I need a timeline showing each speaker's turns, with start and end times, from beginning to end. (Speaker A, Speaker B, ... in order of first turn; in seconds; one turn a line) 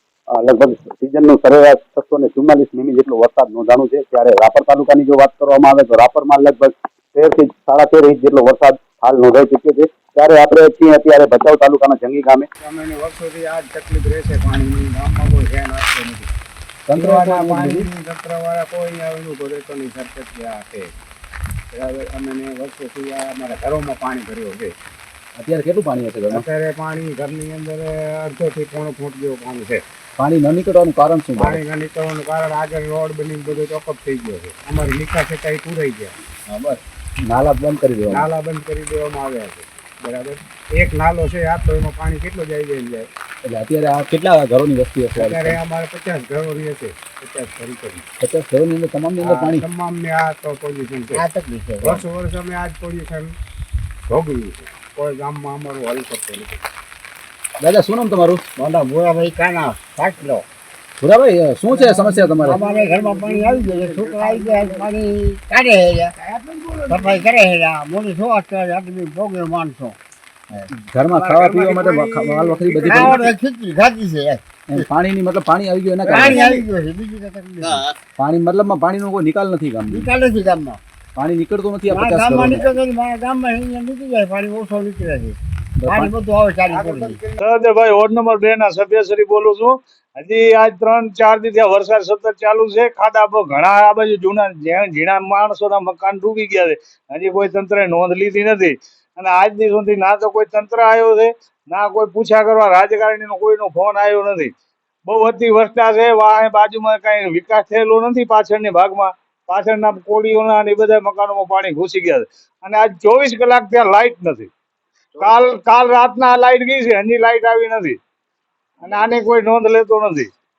Speaker A: 0.3-12.5
Speaker B: 12.6-16.3
Speaker C: 16.9-17.9
Speaker B: 16.9-20.9
Speaker B: 21.7-24.7
Speaker C: 25.4-26.4
Speaker B: 26.3-29.8
Speaker C: 30.2-31.6
Speaker B: 31.4-36.2
Speaker C: 37.3-38.2
Speaker B: 38.1-43.1
Speaker C: 43.5-45.6
Speaker B: 45.1-48.1
Speaker C: 48.2-49.6
Speaker B: 49.2-51.3
Speaker D: 51.1-52.0
Speaker B: 51.8-53.4
Speaker B: 54.1-56.6
Speaker C: 57.6-58.4
Speaker D: 58.6-60.5
Speaker C: 61.0-62.6
Speaker B: 61.7-64.9
Speaker D: 62.0-66.1
Speaker B: 66.2-67.3
Speaker D: 66.9-70.0
Speaker C: 70.8-73.3
Speaker B: 71.1-73.3
Speaker D: 72.8-74.9
Speaker C: 74.7-76.5
Speaker D: 76.0-77.8
Speaker B: 76.1-76.7
Speaker C: 78.2-80.1
Speaker D: 79.9-80.8
Speaker C: 81.2-82.7
Speaker D: 81.9-87.2
Speaker C: 85.8-86.1
Speaker B: 86.7-87.8
Speaker E: 87.4-104.5
Speaker E: 105.1-114.5
Speaker A: 115.1-115.6
Speaker E: 115.2-118.0
Speaker A: 118.8-119.2
Speaker E: 118.8-120.3